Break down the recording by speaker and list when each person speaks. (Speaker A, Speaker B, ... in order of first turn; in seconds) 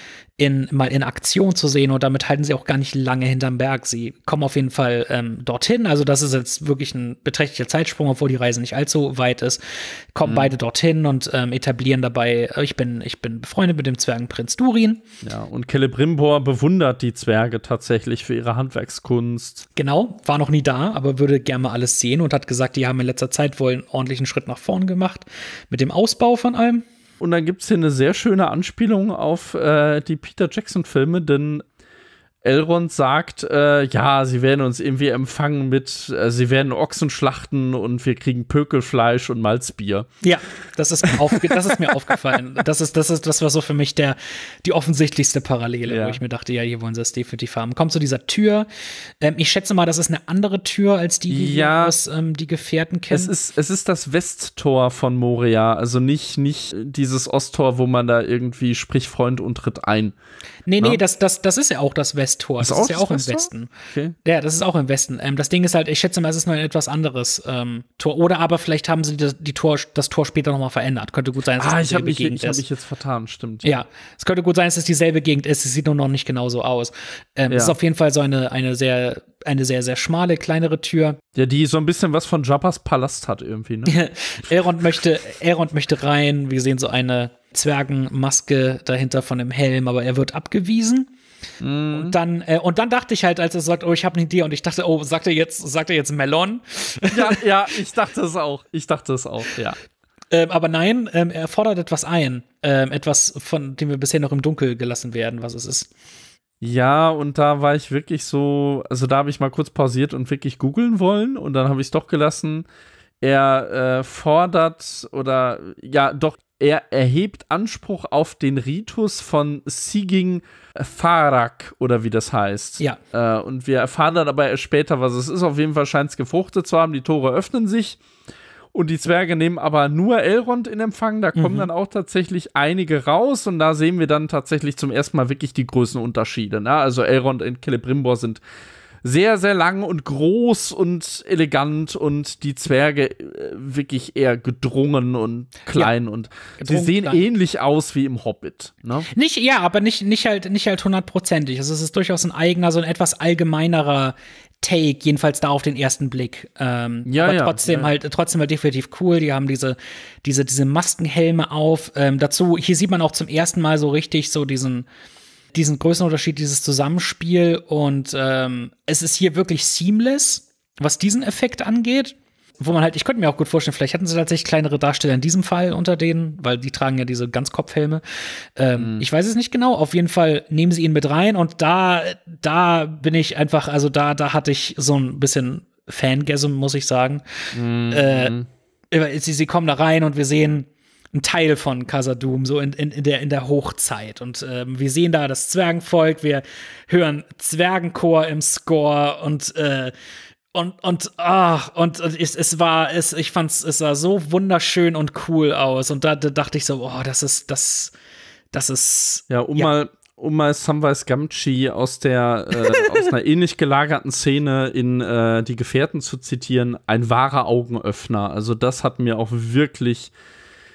Speaker A: 0.4-15.0, 19.8-26.9, 40.2-48.7, 49.2-53.3, 60.7-63.7, 64.2-72.6, 73.6-81.2, 83.9-91.1, 91.9-97.4, 100.3-105.9, 131.4-131.7, 146.6-147.2, 149.1-164.9, 165.5-188.3, 188.9-199.9, 200.5-207.9, 208.5-209.7
Speaker B: 10.2-10.5, 15.2-19.6, 27.2-31.6, 32.4-40.1, 41.3-41.7, 45.9-46.2, 51.3-51.9, 53.1-60.1, 62.6-64.2, 71.6-73.7, 77.5-77.8, 81.4-84.0, 91.6-92.2, 97.1-99.8, 106.6-112.7, 113.2-128.0, 128.7-138.4, 139.0-149.1, 157.1-157.9, 178.8-179.0, 187.5-188.5, 209.3-220.1